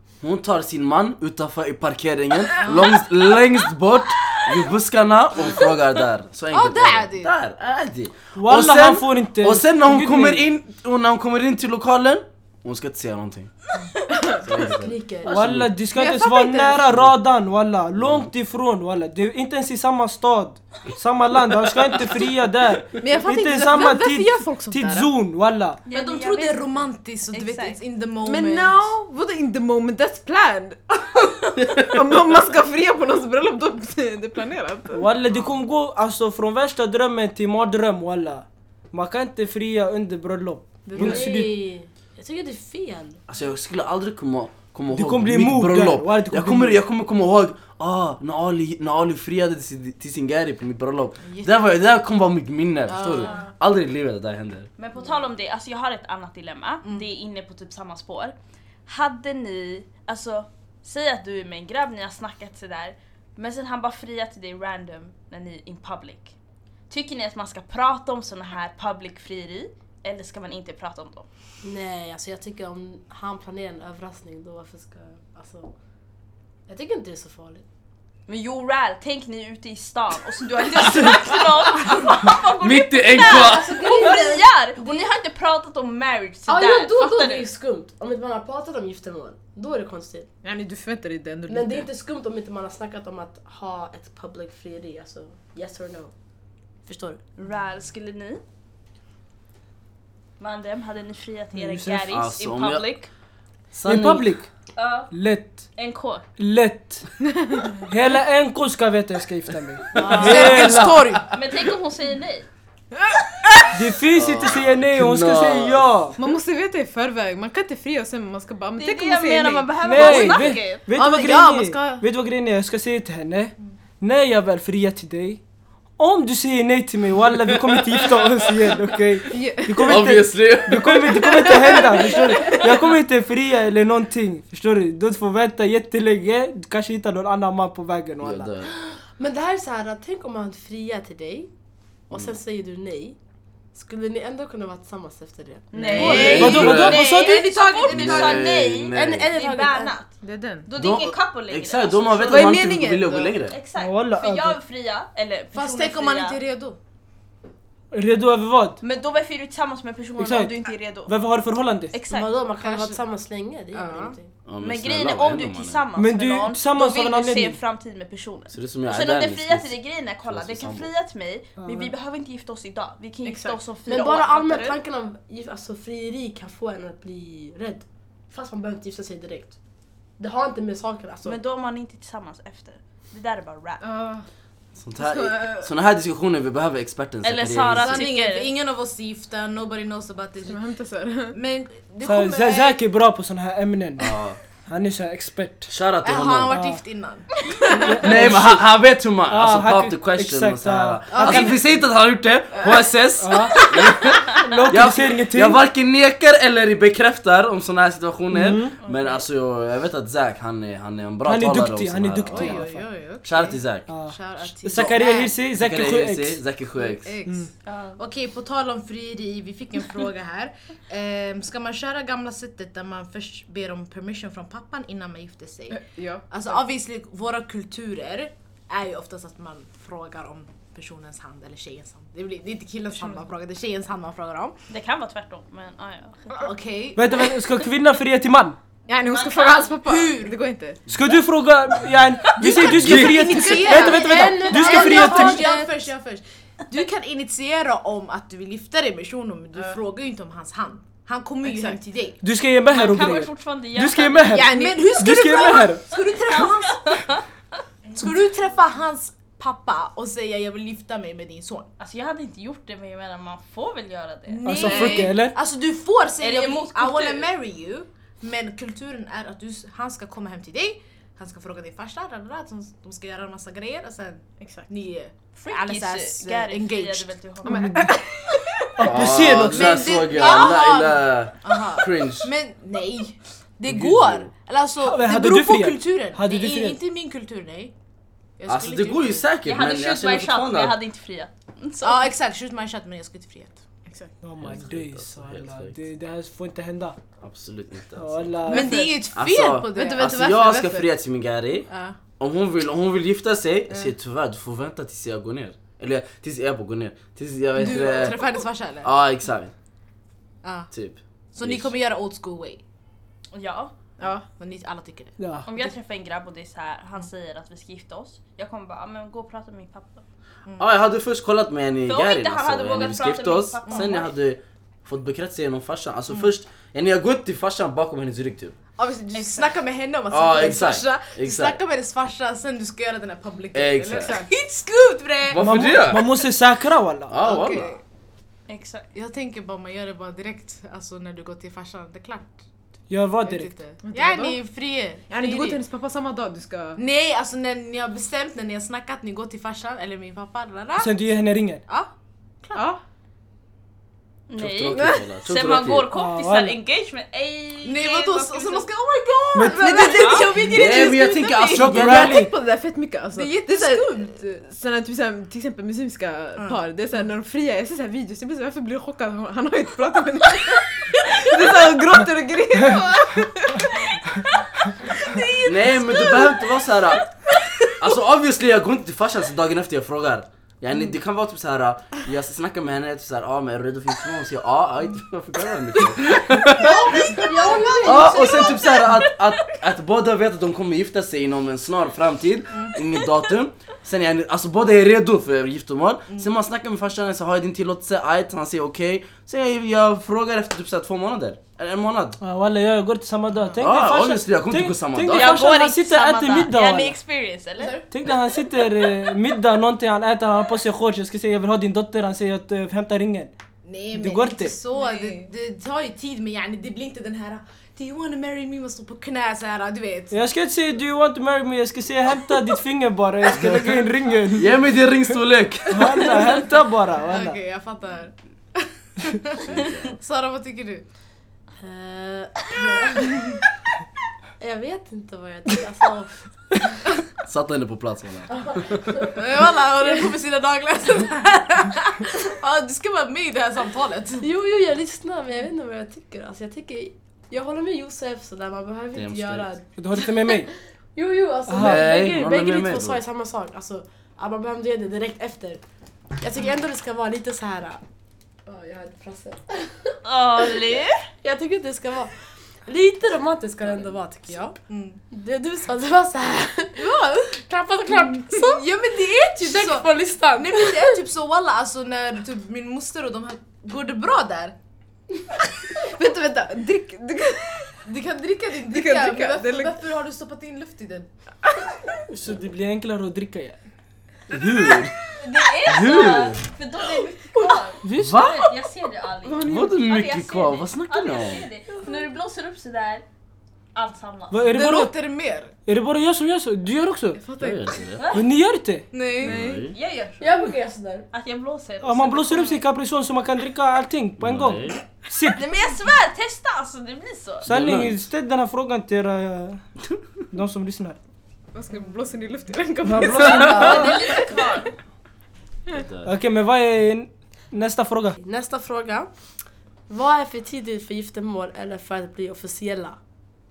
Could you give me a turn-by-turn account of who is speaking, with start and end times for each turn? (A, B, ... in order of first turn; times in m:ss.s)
0:00.2-0:13.5 A
0:02.6-0:03.0 B
0:06.5-0:07.3 B
0:08.4-0:10.5 C
0:14.4-0:15.7 A
0:14.7-0:15.4 D
0:15.3-0:25.8 C
0:15.9-0:16.9 E
0:18.0-0:18.3 A
0:23.0-0:25.1 E
0:25.9-0:27.8 F
0:25.9-0:28.9 B
0:28.2-0:35.1 E
0:34.9-0:41.5 C
0:40.9-0:41.2 E
0:41.0-0:43.2 D
0:43.3-0:54.7 A
0:44.9-0:46.8 C
0:51.2-0:51.6 B
0:52.9-0:53.4 B
0:53.2-0:53.5 F
0:54.8-0:58.4 F
0:58.9-1:06.3 F
1:06.9-1:11.3 F
1:11.6-1:15.7 D
1:16.7-1:17.6 D
1:18.3-1:27.5 F
1:22.6-1:23.8 A
1:23.2-1:24.5 D
1:26.5-1:30.3 D
1:30.4-1:31.9 E
1:31.5-1:36.1 D
1:36.9-1:37.2 D
1:37.4-1:38.4 F
1:40.4-1:43.1 F
1:41.5-1:42.1 C
1:42.1-1:42.8 A
1:43.7-1:44.3 A
1:43.8-1:44.5 C
1:44.8-1:45.1 F
1:45.1-1:45.7 C
1:45.8-1:46.2 F
1:46.4-1:47.1 C
1:47.9-1:51.0 C
1:50.0-1:51.3 B
1:50.4-1:51.1 A
1:51.3-1:52.5 F
1:53.7-1:56.2 C
1:54.1-1:55.9 A
1:56.2-2:02.0 E
1:58.8-2:00.8 F
1:59.8-2:05.4 C
2:01.0-2:02.0 B
2:06.0-2:18.5 C
2:09.3-2:10.2 E
2:09.8-2:11.0 A
2:11.1-2:12.6 E
2:18.2-2:18.7 A
2:18.7-2:21.5 D
2:22.1-2:22.4 A
2:22.1-2:23.2 D
2:23.8-2:26.0 D
2:25.7-2:30.1 F
2:25.8-2:26.5 E
2:25.8-2:28.4 B
2:25.9-2:27.0 A
2:26.4-2:27.5 C
2:27.1-2:28.1 E
2:27.9-2:29.3 A
2:28.9-2:29.9 D
2:30.2-2:30.7 E
2:30.7-2:32.6 F
2:30.8-2:33.6 A
2:32.2-2:33.3 E
2:33.5-2:36.4 F
2:33.8-2:34.6 C
2:35.5-2:36.8 B
2:37.9-2:38.8 C
2:38.8-2:41.2 F
2:40.2-2:40.6 C
2:41.1-2:41.9 C
2:41.9-2:42.3 F
2:42.1-2:44.3 D
2:42.6-2:43.0 B
2:43.7-2:44.2 B
2:44.5-2:45.8 A
2:44.6-2:54.8 F
2:46.0-2:47.6 C
2:48.5-2:50.9 A
2:51.6-2:51.9 C
2:53.3-2:53.6 E
2:53.9-2:59.6 D
3:00.2-3:01.4 D
3:01.2-3:03.8 F
3:03.8-3:04.2 E
3:04.8-3:08.0 A
3:05.0-3:05.7 E
3:07.2-3:08.5 F
3:07.7-3:10.6 B
3:10.4-3:11.4 E
3:11.3-3:12.8 B
3:12.0-3:14.2 C
3:14.0-3:14.4 A
3:14.7-3:15.7 C
3:15.7-3:16.6 A
3:16.0-3:18.0 B
3:16.5-3:16.8 C
3:17.8-3:21.6 C
3:18.0-3:32.6 A
3:21.1-3:21.6 B
3:22.6-3:22.9 B
3:23.2-3:23.6 C
3:23.6-3:23.9 B
3:24.4-3:25.6 C
3:28.3-3:28.8 C
3:28.8-3:29.2 F
3:31.2-3:32.8 C
3:32.3-3:35.4 B
3:33.2-3:33.9 A
3:33.9-3:36.4 C
3:34.7-3:37.1 A
3:36.8-3:54.6 B
3:37.6-3:38.0 F
3:45.7-3:46.6 E
3:54.7-3:56.4 F
3:56.3-3:57.2 B
3:57.0-3:58.6 C
3:58.9-4:00.8 E
3:59.1-3:59.8 F
3:59.8-4:00.4 B
4:00.9-4:05.5 C
4:02.4-4:02.7 F
4:02.4-4:12.2 B
4:02.8-4:03.4 A
4:03.6-4:05.8 D
4:11.4-4:11.8 E
4:12.2-4:15.8 C
4:12.7-4:14.4 F
4:14.3-4:16.8 B
4:14.4-4:15.5 E
4:15.9-4:17.2 F
4:17.9-4:21.7 B
4:21.8-4:25.1 F
4:24.3-4:37.1 B
4:24.4-4:25.4 C
4:26.2-4:27.3 F
4:35.5-4:37.8 F
4:37.4-4:38.3 E
4:37.5-4:38.0 C
4:38.8-4:40.0 C
4:38.8-4:42.3 A
4:39.5-4:47.7 B
4:43.7-4:44.3 A
4:44.8-4:46.8 C
4:48.4-4:49.3 B
4:48.5-4:50.8 A
4:49.4-4:52.1 F
4:51.8-4:54.1 B
4:54.2-4:57.0 C
4:54.4-4:55.8 A
4:57.2-4:58.4 A
4:58.0-4:58.9 C
4:58.5-5:00.6 B
4:59.1-5:01.7 A
4:59.7-5:00.8 E
5:01.7-5:02.0 B
5:02.2-5:09.5 A
5:07.6-5:08.9 B
5:07.6-5:08.1 E
5:10.4-5:10.7 B
5:10.7-5:11.7 A
5:11.3-5:12.6 B
5:13.3-5:13.7 F
5:14.0-5:14.3 E
5:14.0-5:15.2 B
5:15.2-5:15.7 C
5:15.5-5:20.0 F
5:20.6-5:28.6 A
5:21.9-5:24.1 F
5:23.7-5:23.9 B
5:28.8-5:29.6 E
5:29.1-5:35.6 B
5:30.1-5:31.6 A
5:33.5-5:34.2 A
5:35.3-5:36.0 A
5:35.4-5:37.1 C
5:37.1-5:37.7 A
5:37.2-5:37.8 B
5:38.5-5:38.9 F
5:38.9-5:42.4 B
5:42.9-5:43.5 C
5:43.2-5:45.6 B
5:43.8-5:44.4 E
5:45.1-5:46.8 E
5:46.8-5:51.0 B
5:50.8-5:51.6 C
5:51.7-5:51.9 B
5:52.4-5:52.7 B
5:52.5-5:52.8 E
5:54.3-5:58.7 F
5:54.4-5:55.9 A
5:54.8-5:55.1 E
5:55.9-5:56.6 C
5:57.6-6:01.4 B
5:59.3-5:59.8 C
5:59.6-6:13.8 E
5:59.7-6:00.4 F
6:00.5-6:02.2 A
6:01.5-6:02.3 C
6:03.1-6:04.2 B
6:06.4-6:06.6 B
6:14.9-6:16.4 E
6:15.4-6:17.0 A
6:17.8-6:27.2 A
6:26.6-6:28.8 D
6:27.1-6:28.4 B
6:27.8-6:42.2 A
6:28.3-6:29.1 F
6:32.5-6:32.8 B
6:42.2-6:47.0 C
6:43.6-6:45.4 A
6:45.1-6:47.8 F
6:47.6-6:47.9 B
6:47.9-6:53.3 C
6:53.6-7:00.2 B
6:54.0-6:54.5 C
6:54.8-6:55.3 E
7:00.1-7:04.6 C
7:03.3-7:03.7 A
7:04.4-7:06.1 A
7:05.7-7:07.4 C
7:06.2-7:06.5 B
7:07.0-7:10.8 B
7:09.4-7:10.0 A
7:11.6-7:13.4 D
7:14.4-7:16.3 D
7:17.2-7:19.1 A
7:18.3-7:19.1 D
7:19.2-7:24.3 B
7:24.2-7:35.6 D
7:28.9-7:29.5 A
7:29.8-7:30.5 C
7:31.5-7:31.9 C
7:31.6-7:33.0 A
7:36.2-7:37.8 D
7:38.5-7:40.5 D
7:40.0-7:41.0 F
7:41.2-7:42.1 D
7:42.7-7:44.6 D
7:44.7-7:45.0 B
7:45.1-7:48.6 D
7:46.8-7:47.4 B
7:48.4-7:54.6 B
7:49.3-7:51.0 D
7:55.9-7:57.7 E
7:57.8-8:01.1 B
7:58.6-7:59.8 E
8:02.1-8:03.6 C
8:04.3-8:04.9 A
8:05.2-8:13.0 F
8:05.7-8:06.4 A
8:07.8-8:08.4 C
8:08.0-8:08.4 A
8:09.2-8:09.8 E
8:09.5-8:11.5 A
8:13.8-8:14.4 F
8:14.3-8:14.9 C
8:14.5-8:15.5 B
8:15.7-8:17.2 C
8:17.2-8:17.9 E
8:17.4-8:18.0 A
8:18.1-8:18.9 C
8:18.9-8:19.4 B
8:19.2-8:19.7 E
8:19.2-8:19.7 A
8:19.7-8:20.5 F
8:20.2-8:21.1 D
8:21.1-8:22.6 F
8:21.8-8:25.4 C
8:24.2-8:24.8 A
8:25.4-8:27.5 F
8:27.4-8:28.0 A
8:27.5-8:29.6 C
8:30.3-8:31.0 C
8:31.5-8:34.2 E
8:32.8-8:33.9 C
8:33.3-8:34.7 F
8:35.7-8:36.1 A
8:36.0-8:38.2 C
8:38.2-8:39.1 D
8:39.9-8:43.0 D